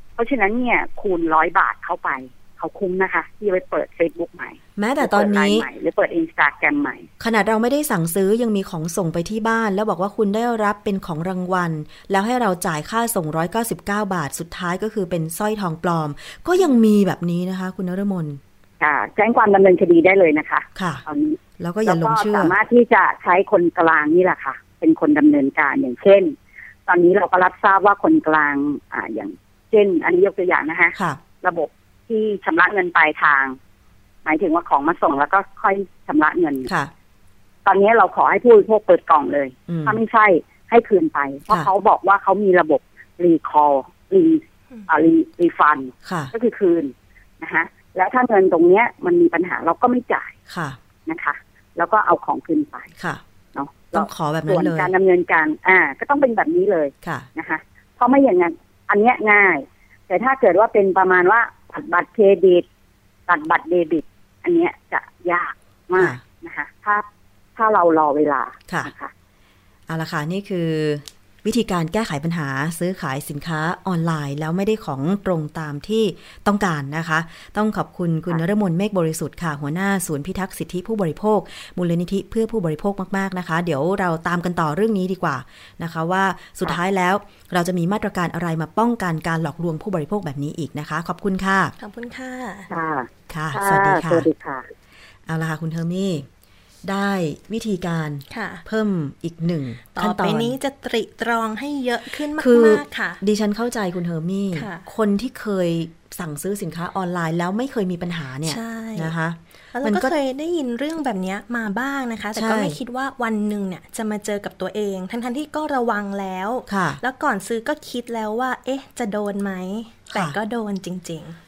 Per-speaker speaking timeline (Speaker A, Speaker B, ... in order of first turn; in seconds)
Speaker A: 0.2-7.1, 18.8-26.3, 26.9-33.6, 34.2-36.7, 37.6-50.3, 51.0-52.9, 53.5-62.6, 63.3-67.0, 67.5-69.1, 92.7-94.7
Speaker B: 4.8-5.7, 7.2-18.4, 20.8-21.0, 21.6-22.5, 30.9-31.2, 36.7-36.9, 39.7-40.0, 46.0-46.3, 50.5-50.8, 53.9-54.9, 57.0-57.3, 69.9-91.7, 93.3-94.3, 95.3-96.3, 96.8-100.6, 102.3-110.1, 112.3-112.8, 116.7-117.0, 120.1-120.4
Speaker C: 91.8-92.7, 98.3-98.6, 99.9-103.2, 104.5-104.9, 108.4-109.1, 109.7-121.4